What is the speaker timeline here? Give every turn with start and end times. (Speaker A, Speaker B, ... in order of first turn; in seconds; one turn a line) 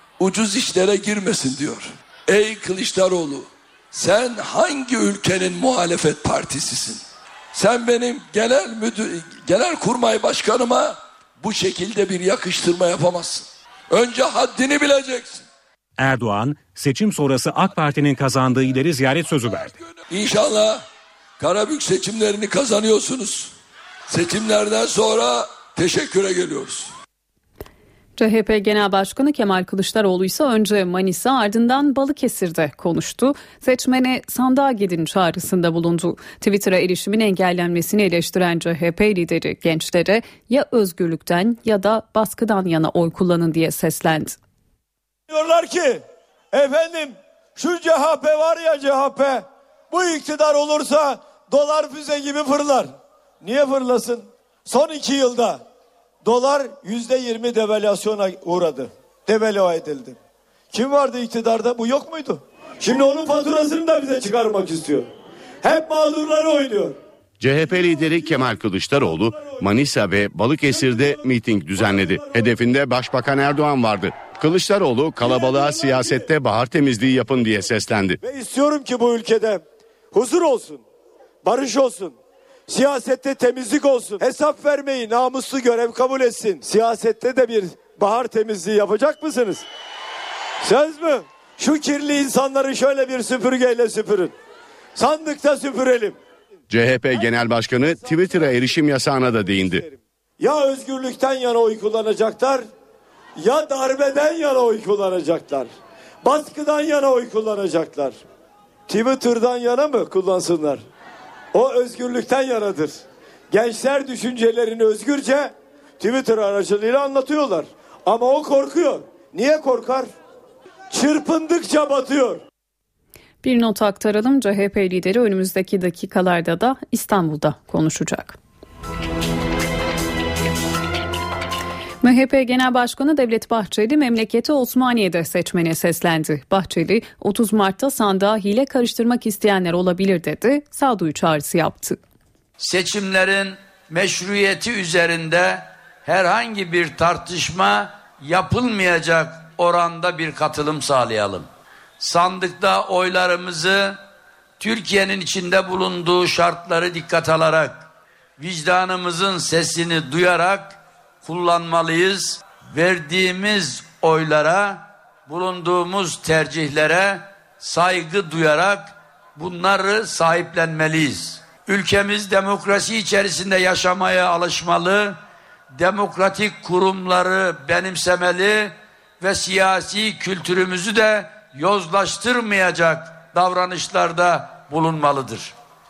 Speaker A: 0.2-7.0
Speaker A: 7.5-15.4
Speaker B: 16.0-19.7
Speaker A: 20.1-20.8
Speaker A: 21.4-23.5
Speaker A: 24.1-26.9
Speaker C: 28.2-44.4
Speaker D: 45.3-46.0
Speaker D: 46.5-52.9
Speaker D: 53.4-55.6
Speaker D: 56.2-60.2
Speaker D: 60.7-65.0
Speaker D: 65.6-66.9
Speaker E: 67.4-78.2
Speaker D: 78.2-79.6
Speaker D: 80.1-80.8
Speaker D: 81.4-82.1
Speaker D: 82.7-89.6
Speaker D: 90.6-94.3
Speaker D: 95.0-96.2
Speaker E: 96.7-99.8
Speaker D: 100.4-102.6
Speaker D: 103.4-105.7
Speaker D: 106.2-108.2
Speaker D: 108.9-110.8
Speaker D: 111.5-120.1
Speaker D: 120.9-122.4
Speaker C: 123.4-128.3
Speaker C: 132.0-142.0
Speaker F: 142.6-151.5
Speaker F: 152.0-154.0
Speaker F: 154.6-157.8
Speaker F: 158.4-175.2
Speaker F: 175.7-185.5